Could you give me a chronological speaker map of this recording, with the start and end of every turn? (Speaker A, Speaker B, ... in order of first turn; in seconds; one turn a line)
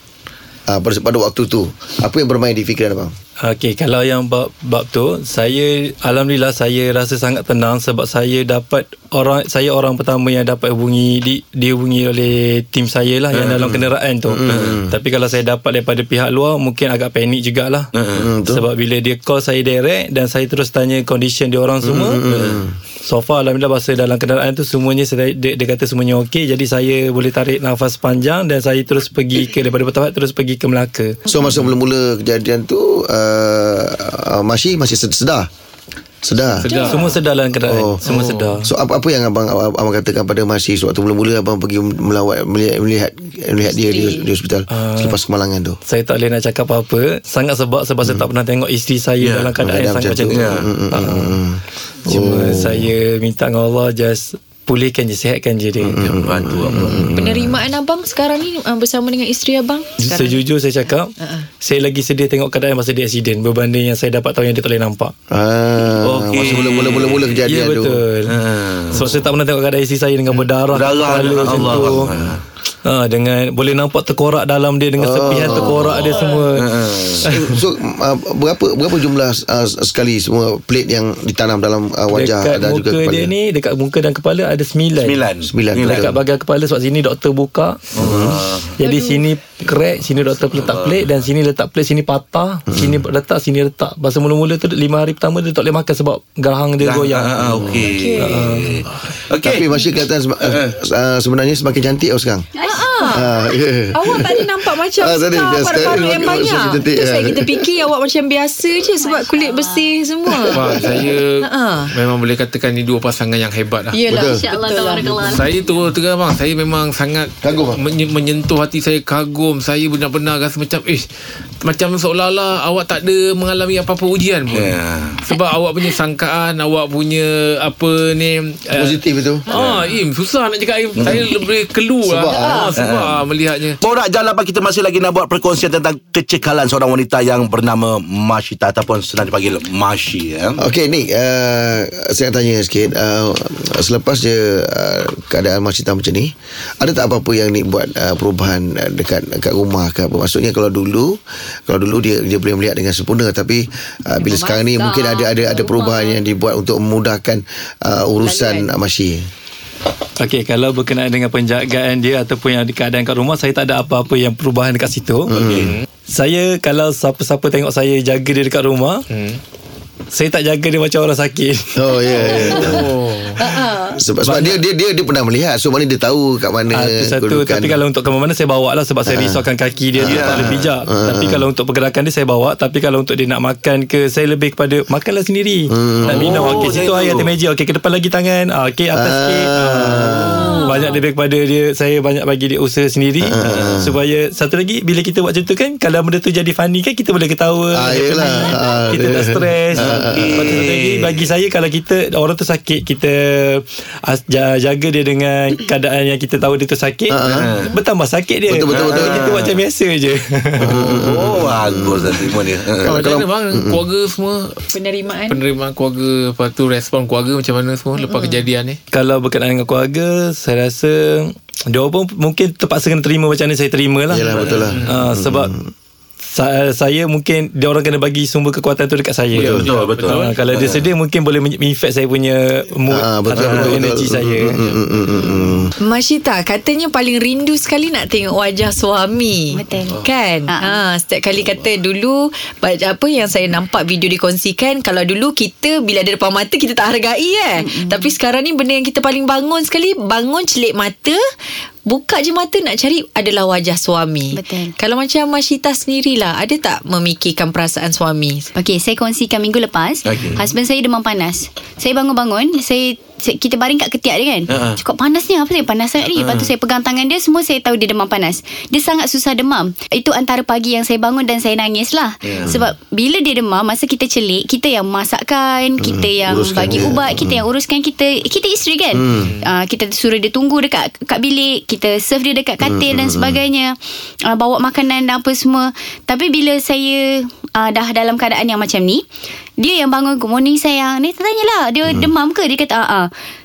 Speaker A: 0.7-3.1
Speaker B: 3.4-17.9
Speaker C: 13.3-13.8
Speaker A: 13.6-14.9
Speaker C: 14.4-14.8
Speaker C: 17.9-18.3
Speaker A: 18.1-18.6
Speaker B: 18.4-22.2
Speaker A: 21.8-22.7
Speaker C: 22.3-22.6
Speaker B: 23.0-31.2
Speaker A: 31.3-35.5
Speaker A: 36.2-36.8
Speaker D: 36.6-37.3
Speaker E: 36.7-37.1
Speaker B: 36.8-38.7
Speaker A: 37.7-45.8
Speaker D: 43.7-44.2
Speaker B: 44.7-45.2
Speaker B: 45.9-51.4
Speaker C: 49.2-49.5
Speaker A: 49.6-52.9
Speaker C: 50.3-50.7
Speaker B: 52.1-56.0
Speaker A: 55.8-57.5
Speaker C: 55.9-57.2
Speaker D: 57.1-60.4
Speaker B: 60.0-65.1
Speaker D: 61.2-61.5
Speaker A: 65.3-68.0
Speaker C: 66.0-67.4
Speaker B: 67.5-68.4
Speaker C: 68.3-69.1
Speaker B: 68.9-72.1
Speaker C: 70.7-72.4
Speaker A: 71.4-72.3
Speaker B: 72.8-77.3
Speaker A: 75.0-76.1
Speaker C: 75.7-77.5
Speaker A: 77.2-83.3
Speaker B: 82.1-85.2
Speaker C: 85.0-86.1
Speaker A: 85.5-86.1
Speaker B: 85.8-88.1
Speaker C: 87.9-88.8
Speaker A: 88.0-88.5
Speaker B: 88.8-98.7
Speaker D: 88.8-89.3
Speaker C: 90.5-91.1
Speaker A: 92.7-93.0
Speaker C: 96.8-99.7
Speaker A: 97.5-97.8
Speaker D: 97.8-98.6
Speaker A: 99.4-102.5
Speaker C: 100.5-100.8
Speaker F: 102.6-103.2
Speaker D: 102.6-103.3
Speaker A: 103.1-107.7
Speaker D: 103.9-110.9
Speaker F: 109.0-110.0
Speaker E: 110.5-114.0
Speaker A: 110.7-111.1
Speaker D: 111.4-111.9
Speaker D: 113.9-115.3
Speaker A: 114.1-114.4
Speaker F: 114.1-115.5
Speaker E: 115.2-121.1
Speaker A: 117.4-117.8
Speaker E: 121.6-129.0
Speaker C: 124.5-125.2
Speaker A: 128.8-129.5
Speaker E: 129.5-133.8
Speaker C: 129.5-129.8
Speaker C: 131.0-131.3
Speaker A: 132.1-132.7
Speaker D: 132.3-132.7
Speaker C: 132.8-133.2
Speaker C: 133.8-140.6
Speaker A: 140.6-159.3
Speaker D: 154.2-155.9
Speaker F: 154.8-156.1
Speaker D: 158.2-158.7
Speaker B: 160.2-165.4
Speaker A: 165.3-165.7
Speaker C: 165.3-165.7
Speaker B: 166.1-169.0
Speaker E: 169.1-169.4
Speaker B: 170.1-172.6
Speaker A: 171.8-177.8
Speaker E: 172.2-173.4
Speaker D: 173.4-173.9
Speaker B: 174.2-174.6
Speaker B: 176.7-211.0
Speaker A: 179.1-179.4
Speaker A: 180.0-181.4
Speaker C: 180.0-180.7
Speaker A: 185.7-186.8
Speaker C: 186.1-187.3
Speaker A: 188.9-190.6
Speaker D: 190.3-191.1
Speaker A: 193.2-193.9
Speaker C: 193.4-193.8
Speaker A: 197.7-200.7
Speaker C: 199.8-201.2
Speaker A: 207.1-207.5
Speaker C: 207.2-207.7
Speaker A: 208.5-209.3
Speaker C: 208.6-209.6
Speaker C: 210.6-213.0
Speaker A: 210.6-213.8
Speaker E: 212.8-214.6
Speaker D: 214.7-215.4
Speaker E: 215.3-218.8
Speaker D: 218.0-218.4
Speaker B: 218.9-225.6
Speaker A: 224.1-225.7
Speaker E: 224.7-225.1
Speaker B: 226.3-234.6
Speaker E: 229.3-230.4
Speaker C: 229.4-230.9
Speaker A: 232.9-235.7
Speaker C: 233.3-233.8
Speaker D: 235.8-251.2
Speaker F: 239.5-240.7
Speaker F: 247.6-248.1
Speaker D: 251.9-258.5
Speaker F: 254.3-254.7
Speaker F: 258.6-283.8
Speaker C: 260.1-260.5
Speaker C: 264.5-264.8
Speaker C: 266.2-266.5
Speaker C: 272.2-272.5
Speaker A: 275.8-277.4
Speaker A: 278.9-279.3
Speaker E: 279.2-279.5
Speaker A: 282.6-283.4
Speaker F: 284.3-289.1
Speaker F: 289.6-293.1